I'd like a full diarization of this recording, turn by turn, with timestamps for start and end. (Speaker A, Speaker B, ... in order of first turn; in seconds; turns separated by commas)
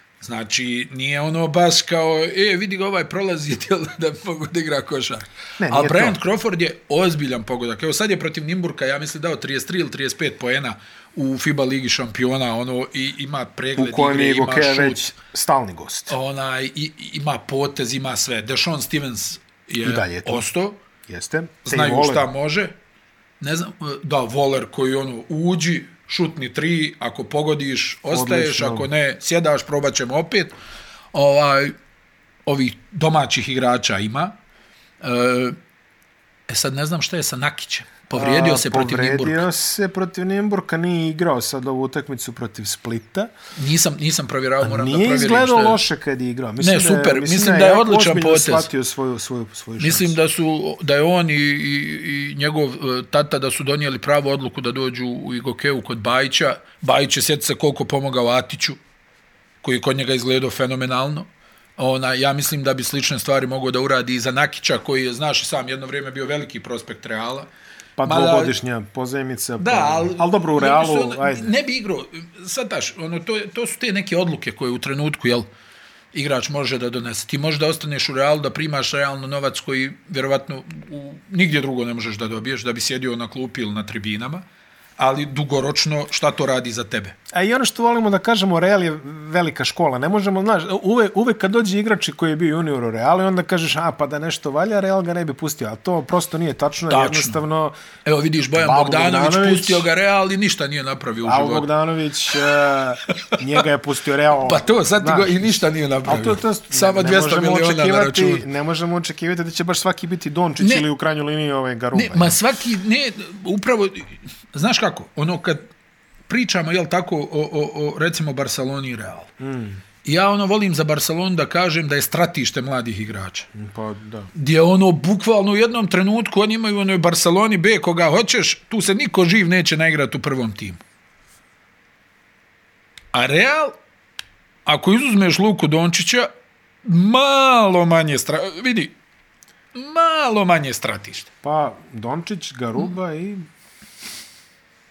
Speaker A: 0.2-15.1, Speaker B: 5.6-6.2, Speaker B: 13.8-16.2, Speaker A: 16.1-20.8, Speaker B: 19.8-20.4, Speaker B: 21.1-22.3, Speaker A: 21.6-22.7, Speaker A: 23.4-30.6, Speaker B: 28.1-28.9, Speaker A: 31.1-31.7, Speaker A: 32.5-34.4, Speaker A: 35.0-35.6, Speaker A: 36.5-39.5, Speaker B: 38.1-43.3, Speaker A: 43.5-45.8, Speaker B: 44.6-50.2, Speaker A: 46.6-48.7, Speaker A: 49.8-58.8, Speaker A: 59.6-67.5, Speaker B: 68.0-71.5, Speaker A: 68.0-68.5, Speaker A: 69.6-75.5, Speaker A: 76.1-84.4, Speaker A: 85.0-87.1, Speaker B: 87.3-97.7, Speaker A: 96.9-97.4, Speaker A: 98.0-101.7, Speaker B: 98.5-99.9, Speaker B: 101.2-112.4, Speaker A: 103.1-103.4, Speaker A: 104.4-108.4, Speaker A: 110.6-110.8, Speaker A: 111.9-115.6, Speaker A: 116.3-119.3, Speaker B: 119.4-119.8, Speaker A: 120.0-123.5, Speaker B: 123.5-124.3, Speaker A: 124.3-130.8, Speaker A: 133.1-133.8, Speaker A: 134.7-136.3, Speaker A: 136.8-138.9, Speaker A: 139.7-141.3, Speaker B: 141.4-143.4